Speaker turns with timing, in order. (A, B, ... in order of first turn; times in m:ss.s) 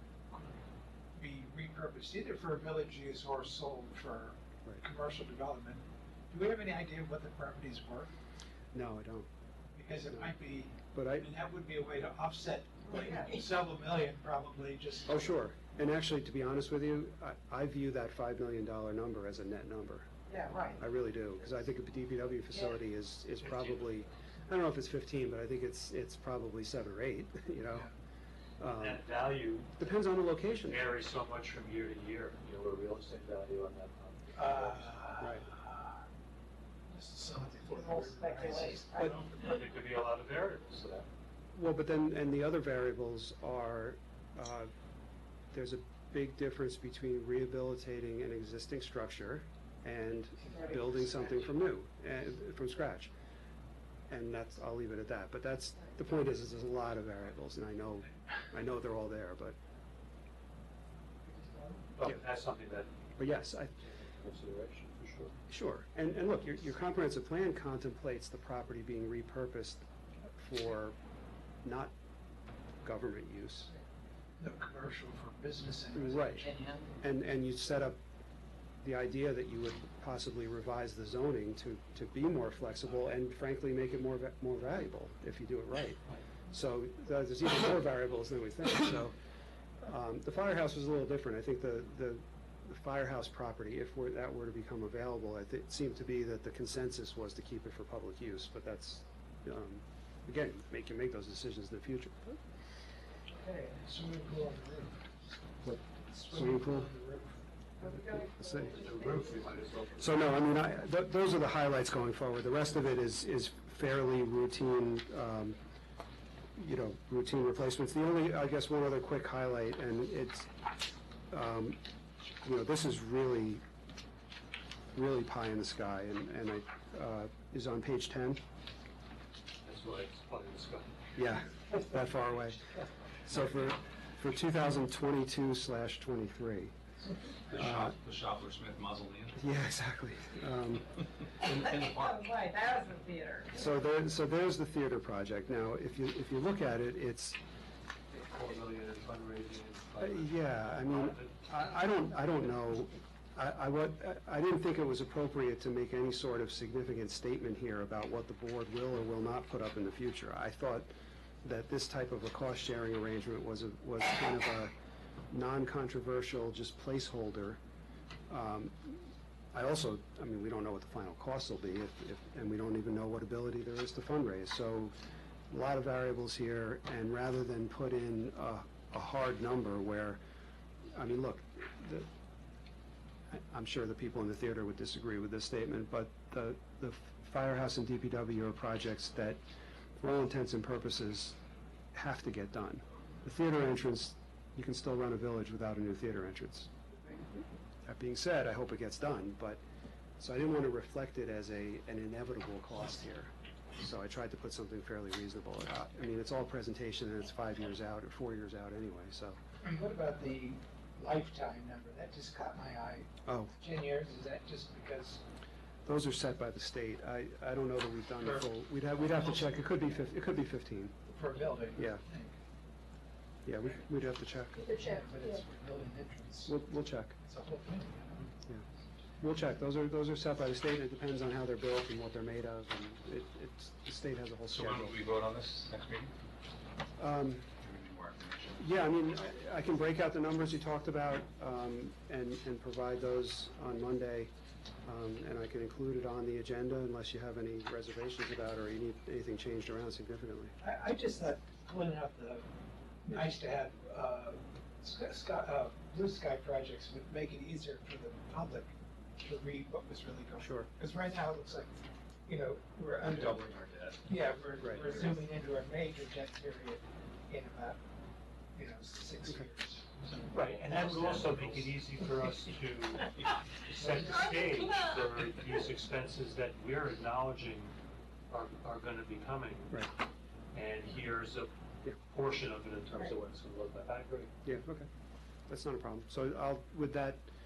0:00.3-0:00.6 A
0:01.2-0:08.1 A
0:08.7-0:09.3 B
0:09.8-0:15.2 A
0:10.1-0:10.4 B
0:10.9-0:11.3 B
0:12.9-0:13.4 C
0:15.1-0:20.1 B
0:20.3-0:20.8 C
0:20.8-0:27.9 B
0:28.6-0:29.2 B
0:28.7-0:34.9 D
0:29.8-0:30.9 B
0:34.4-0:36.0 A
0:35.2-0:35.5 B
0:36.9-0:39.3 A
0:37.7-0:39.1 C
0:39.1-0:41.1 D
0:41.6-0:44.7 B
0:45.5-0:53.1 B
0:50.5-0:51.2 C
0:54.1-0:59.6 B
1:01.3-1:01.8 C
1:02.0-1:02.9 D
1:03.2-1:03.8 B
1:03.8-1:05.4 D
1:05.5-1:11.0 B
1:11.6-1:11.9 B
1:12.8-1:13.7 B
1:14.4-1:16.6 A
1:15.9-1:18.0 B
1:16.5-1:16.9 C
1:18.8-1:29.2 B
1:29.8-1:42.3 B
1:43.4-1:43.7 C
1:43.7-1:47.4 A
1:45.6-1:46.9 B
1:47.8-1:49.4 C
1:47.8-1:49.0 B
1:48.6-1:50.5 D
1:50.0-1:55.6 B
1:56.6-2:00.5 B
2:01.3-2:01.8 B
2:02.4-2:03.6 B
2:04.9-2:08.4 B
2:09.6-2:10.9 D
2:11.2-2:12.7 B
2:13.2-2:16.7 B
2:17.5-2:19.4 E
2:17.5-2:18.0 B
2:19.4-2:21.6 B
2:21.4-2:23.7 C
2:21.5-2:22.3 E
2:23.5-2:27.4 B
2:28.1-2:31.4 D
2:30.0-2:40.9 B
2:41.4-2:44.7 B
2:45.3-2:47.6 B
2:48.3-2:54.9 B
2:55.5-3:00.2 B
3:00.9-3:02.1 B
3:03.3-3:09.4 B
3:10.0-3:11.4 B
3:11.9-3:16.7 B
3:17.9-3:19.6 B
3:20.2-3:29.4 B
3:29.6-3:35.2 A
3:33.3-3:33.5 B
3:35.9-3:41.0 B
3:41.1-3:42.4 A
3:41.8-3:42.0 B
3:43.5-3:44.7 B
3:44.6-3:45.4 C
3:44.8-3:46.6 A
3:46.5-3:47.2 B
3:47.2-3:48.3 A
3:49.2-3:55.0 B
3:54.5-3:56.1 E
3:57.0-3:57.5 B
3:57.6-3:58.7 E
3:58.6-4:04.3 B
4:04.9-4:10.5 B
4:10.6-4:12.5 A
4:13.0-4:21.7 A
4:20.4-4:20.7 B
4:22.3-4:23.4 A
4:23.0-4:24.1 E
4:24.0-4:27.8 A
4:24.6-4:25.2 B
4:28.6-4:30.5 A
4:30.3-4:37.8 D
4:30.3-4:31.7 E
4:34.0-4:35.1 C
4:38.3-4:39.8 D
4:40.5-4:44.3 D
4:44.4-4:44.9 B
4:45.5-4:47.3 B